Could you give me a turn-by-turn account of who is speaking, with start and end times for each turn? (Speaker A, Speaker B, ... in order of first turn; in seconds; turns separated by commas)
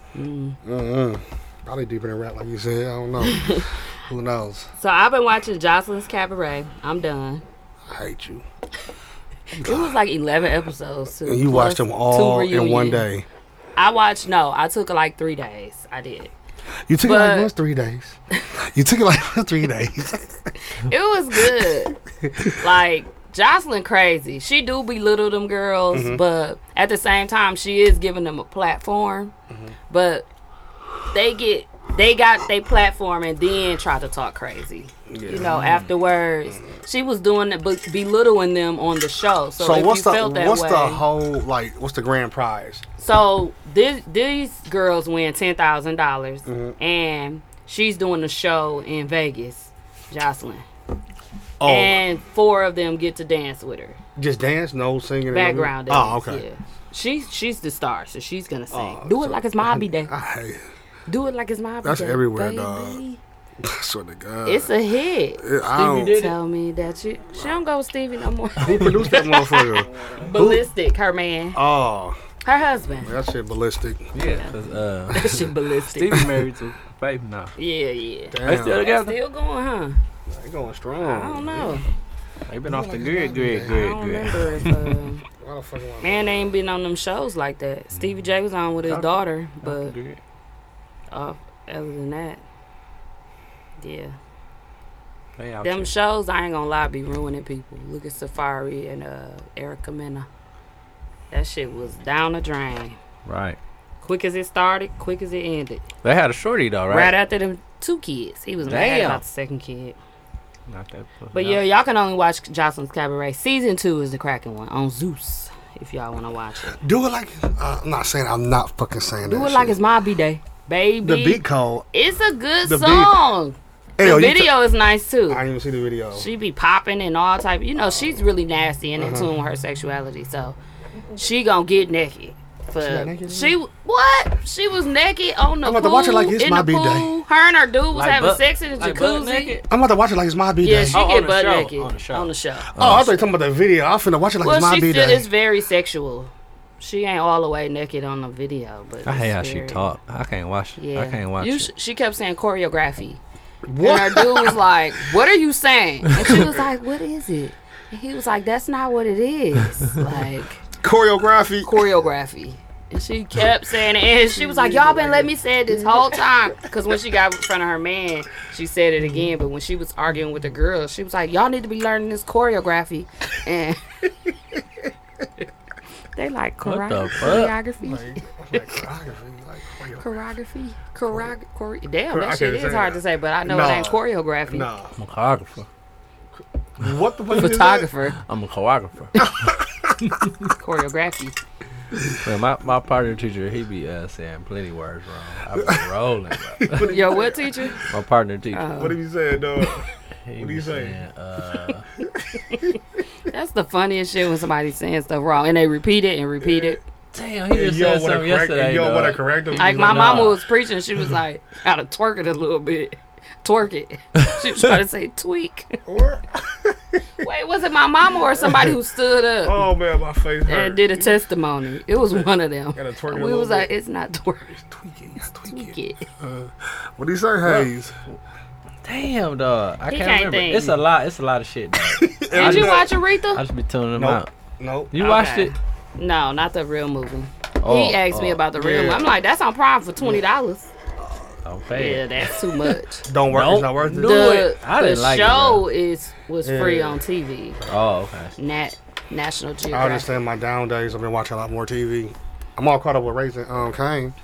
Speaker A: 0.1-0.6, Speaker B: 0.6-4.7, Speaker A: 3.2-3.7, Speaker A: 4.8-7.4, Speaker B: 7.9-8.4, Speaker A: 9.5-13.1, Speaker B: 9.6-9.9, Speaker B: 11.2-13.2, Speaker A: 13.8-16.3, Speaker B: 16.9-20.4, Speaker A: 17.0-17.5, Speaker A: 20.6-21.9, Speaker B: 22.2-22.6, Speaker A: 22.6-29.3, Speaker B: 25.9-26.2, Speaker B: 29.5-29.7, Speaker A: 29.9-30.3, Speaker A: 31.1-41.0, Speaker B: 35.1-35.6, Speaker C: 35.5-35.9, Speaker B: 39.6-42.8, Speaker A: 43.0-50.6, Speaker B: 46.5-46.7, Speaker B: 51.6-52.0, Speaker A: 51.6-54.0, Speaker B: 54.1-56.4, Speaker A: 55.3-60.1, Speaker B: 58.7-60.6, Speaker A: 61.1-63.2, Speaker B: 61.8-63.0, Speaker B: 63.6-64.7, Speaker A: 64.4-65.4, Speaker B: 65.4-66.2, Speaker C: 65.8-66.3, Speaker A: 66.0-71.6, Speaker B: 68.6-70.7, Speaker C: 68.7-69.0, Speaker B: 71.5-72.2, Speaker A: 72.4-73.1, Speaker B: 73.0-74.1, Speaker C: 74.1-77.5, Speaker A: 74.2-74.5, Speaker A: 75.1-76.2, Speaker A: 77.6-80.0, Speaker B: 78.3-78.8, Speaker C: 78.4-79.2, Speaker B: 80.3-81.8, Speaker A: 81.0-81.8, Speaker C: 82.5-85.0, Speaker B: 82.6-83.8, Speaker A: 83.7-85.2, Speaker B: 85.4-86.5, Speaker A: 86.0-89.9, Speaker C: 88.0-88.2, Speaker C: 88.9-90.2, Speaker A: 91.1-92.4, Speaker A: 93.8-94.2, Speaker C: 95.4-95.9, Speaker A: 95.6-100.3, Speaker A: 101.3-103.0, Speaker C: 103.2-103.6, Speaker A: 104.0-105.8, Speaker C: 106.0-107.1, Speaker A: 106.9-110.0, Speaker C: 108.6-109.2, Speaker C: 110.7-111.6, Speaker A: 111.3-116.8, Speaker B: 116.7-119.8, Speaker A: 119.2-121.4, Speaker B: 121.0-121.8, Speaker A: 121.9-125.4, Speaker B: 122.6-123.2, Speaker B: 124.0-124.5, Speaker B: 125.3-126.3, Speaker A: 126.1-130.6, Speaker B: 129.0-129.3, Speaker A: 131.1-139.6, Speaker B: 132.8-133.6, Speaker B: 135.6-137.1, Speaker C: 137.9-139.7, Speaker B: 139.7-141.0, Speaker A: 140.6-142.7, Speaker C: 140.9-143.1, Speaker B: 142.7-145.3, Speaker A: 144.4-149.9, Speaker C: 149.0-151.7, Speaker A: 150.8-153.2, Speaker B: 153.7-154.6, Speaker A: 153.8-160.6, Speaker B: 160.8-161.7, Speaker A: 161.6-174.1, Speaker B: 164.3-166.2, Speaker A: 176.2-178.8, Speaker C: 176.6-177.5, Speaker B: 177.8-180.1, Speaker A: 180.0-184.7, Speaker B: 182.1-184.9, Speaker C: 185.0-185.7, Speaker B: 186.8-187.9, Speaker A: 187.3-188.2, Speaker C: 188.2-189.3, Speaker B: 189.2-189.9, Speaker C: 190.0-190.5, Speaker A: 190.6-191.4, Speaker C: 192.2-196.9, Speaker B: 195.5-195.8, Speaker B: 196.5-197.7, Speaker A: 196.8-197.8, Speaker C: 197.8-198.8, Speaker A: 198.5-199.0, Speaker B: 198.8-201.0, Speaker C: 200.3-201.8, Speaker B: 202.1-202.8, Speaker A: 203.3-206.8, Speaker B: 206.4-206.8, Speaker C: 207.1-210.4, Speaker B: 207.5-210.3, Speaker A: 209.6-215.8, Speaker B: 215.8-217.2, Speaker A: 217.2-219.7, Speaker B: 218.4-218.7, Speaker B: 219.4-221.2, Speaker A: 220.5-224.6, Speaker B: 222.1-223.7, Speaker B: 224.5-227.9, Speaker A: 225.5-226.1, Speaker C: 227.4-228.2, Speaker C: 228.8-234.3, Speaker A: 229.9-230.8, Speaker B: 231.9-232.9, Speaker A: 232.3-233.4, Speaker B: 233.9-234.9, Speaker C: 234.9-235.5, Speaker A: 235.0-240.7, Speaker C: 237.6-238.4, Speaker B: 238.5-239.1, Speaker C: 241.4-242.4, Speaker A: 241.7-243.1, Speaker B: 243.1-244.2, Speaker C: 243.3-245.6, Speaker A: 244.0-247.6, Speaker B: 246.4-247.0, Speaker C: 247.7-248.3, Speaker A: 248.4-250.1, Speaker B: 249.7-254.1